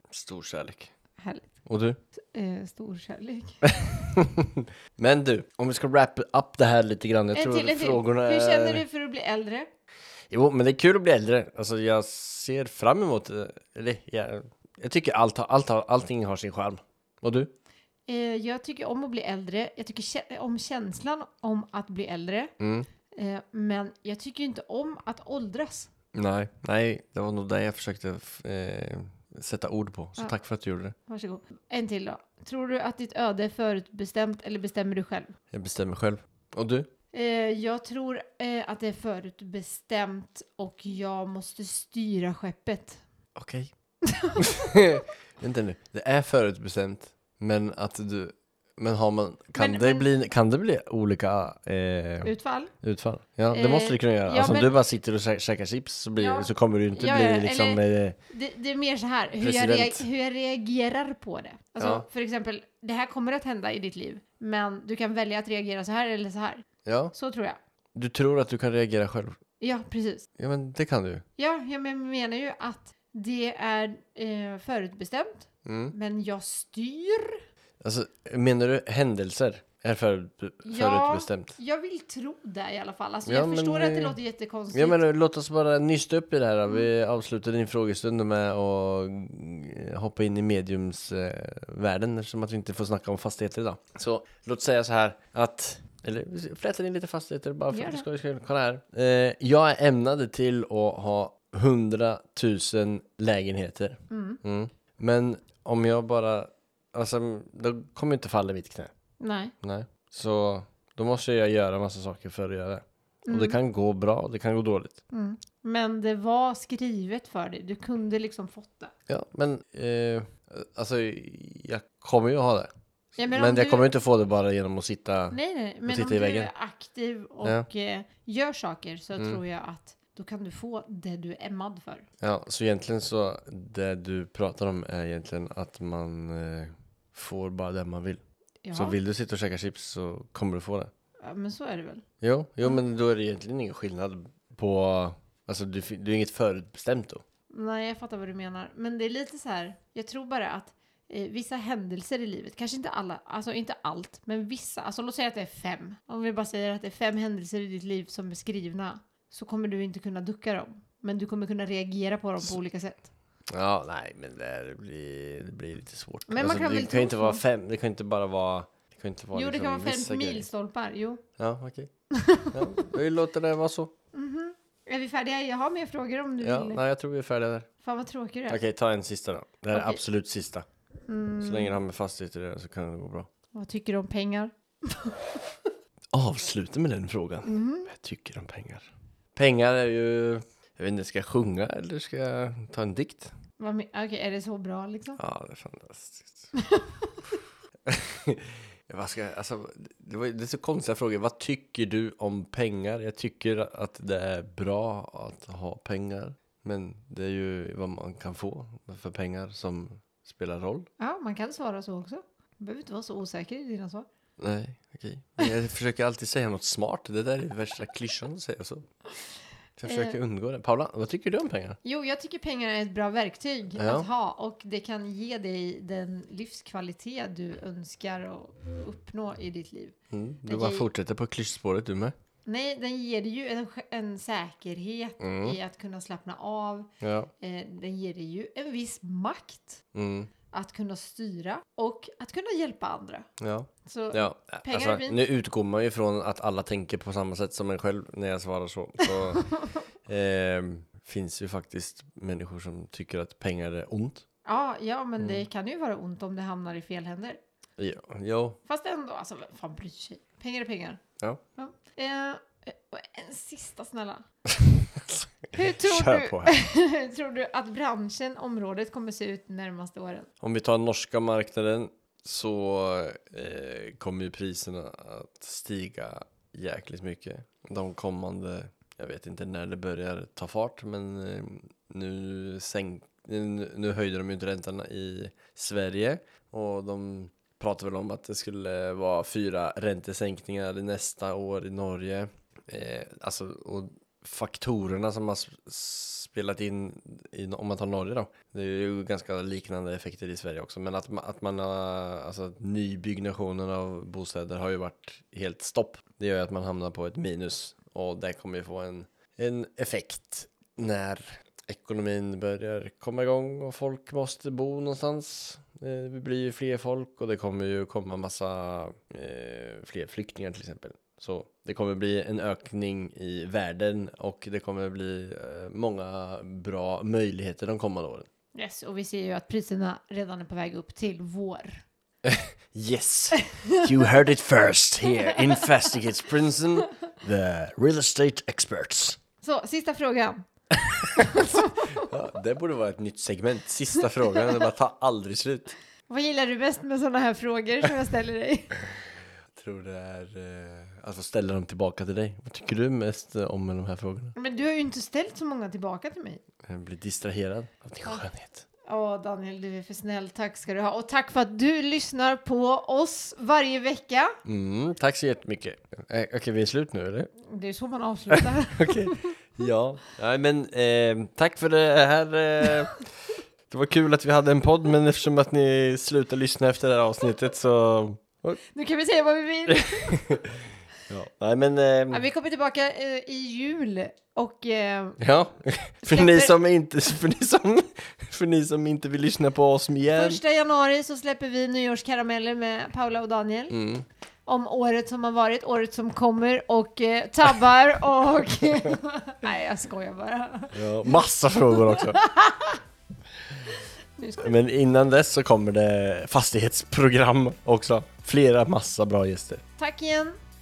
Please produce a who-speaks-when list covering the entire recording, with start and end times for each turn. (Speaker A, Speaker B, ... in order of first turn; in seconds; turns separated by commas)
Speaker A: 0.1-0.9, Speaker B: 1.2-1.6, Speaker A: 1.6-2.0, Speaker B: 2.2-3.6, Speaker A: 3.6-8.8, Speaker B: 7.3-9.7, Speaker A: 10.3-17.5, Speaker B: 18.1-22.5, Speaker A: 22.6-22.9, Speaker B: 23.1-25.9, Speaker A: 26.1-30.9, Speaker B: 31.1-35.4, Speaker A: 35.5-36.9, Speaker B: 37.1-43.0, Speaker A: 43.4-43.7, Speaker B: 44.0-44.8, Speaker A: 44.4-58.1, Speaker B: 49.5-50.1, Speaker B: 52.2-52.7, Speaker B: 53.5-54.7, Speaker B: 56.2-67.6, Speaker A: 59.4-60.0, Speaker A: 61.8-62.0, Speaker A: 66.8-67.1, Speaker A: 67.9-69.4, Speaker B: 69.6-70.3, Speaker A: 70.4-71.2, Speaker B: 71.4-77.4, Speaker A: 75.6-75.9, Speaker A: 77.8-81.5, Speaker B: 80.6-85.0, Speaker A: 83.2-84.2, Speaker A: 84.7-108.9, Speaker B: 97.7-98.0, Speaker B: 104.1-104.4, Speaker B: 109.2-109.5, Speaker A: 109.6-115.0, Speaker B: 113.3-113.6, Speaker B: 115.1-118.9, Speaker A: 119.1-122.7, Speaker B: 123.2-123.9, Speaker A: 123.3-126.5, Speaker B: 125.3-132.1, Speaker A: 132.2-138.2, Speaker B: 138.6-139.0, Speaker A: 138.7-140.9, Speaker B: 141.2-142.0, Speaker A: 142.2-147.2, Speaker B: 147.5-163.1, Speaker A: 163.5-170.5, Speaker B: 166.3-167.4, Speaker B: 169.3-171.2, Speaker A: 171.4-171.9, Speaker B: 172.1-172.9, Speaker A: 172.5-173.9, Speaker B: 174.1-176.8, Speaker A: 176.4-177.7, Speaker B: 177.8-178.6, Speaker A: 178.5-180.6, Speaker B: 179.7-180.0, Speaker B: 181.1-181.8, Speaker A: 181.4-183.3, Speaker B: 183.5-185.7, Speaker A: 186.1-193.3, Speaker B: 187.4-187.9, Speaker B: 193.6-195.2, Speaker A: 195.2-196.5, Speaker B: 196.5-197.2, Speaker A: 197.8-210.9, Speaker B: 211.0-214.1, Speaker A: 214.4-218.9, Speaker A: 219.8-221.8, Speaker B: 219.9-220.2, Speaker B: 221.8-230.9, Speaker A: 223.8-224.1, Speaker A: 230.1-232.1, Speaker B: 232.4-239.8, Speaker A: 235.2-235.6, Speaker A: 237.0-237.3, Speaker A: 239.9-240.3, Speaker B: 240.5-243.3, Speaker A: 243.4-249.5, Speaker B: 243.8-245.2, Speaker A: 250.0-254.2, Speaker B: 254.4-257.4, Speaker A: 257.8-258.6, Speaker B: 258.6-261.0, Speaker B: 261.6-264.2, Speaker A: 264.5-266.5, Speaker B: 265.5-270.3, Speaker A: 270.4-328.3, Speaker B: 328.5-331.8, Speaker A: 332.2-339.2, Speaker B: 339.4-340.4, Speaker A: 340.8-345.8, Speaker B: 341.1-342.1, Speaker B: 346.1-348.8, Speaker A: 349.5-354.3, Speaker B: 354.4-356.4, Speaker A: 356.6-358.6, Speaker B: 358.9-364.4, Speaker A: 364.4-367.3, Speaker B: 367.4-369.3, Speaker A: 368.3-378.6, Speaker B: 378.7-380.2, Speaker A: 379.7-382.3, Speaker B: 382.1-385.2, Speaker A: 385.2-390.4, Speaker B: 386.0-386.5, Speaker B: 390.1-393.8, Speaker A: 393.7-394.0, Speaker B: 394.4-401.2, Speaker A: 400.7-402.2, Speaker B: 401.8-402.8, Speaker B: 403.8-404.5, Speaker A: 404.4-409.6, Speaker B: 409.8-410.4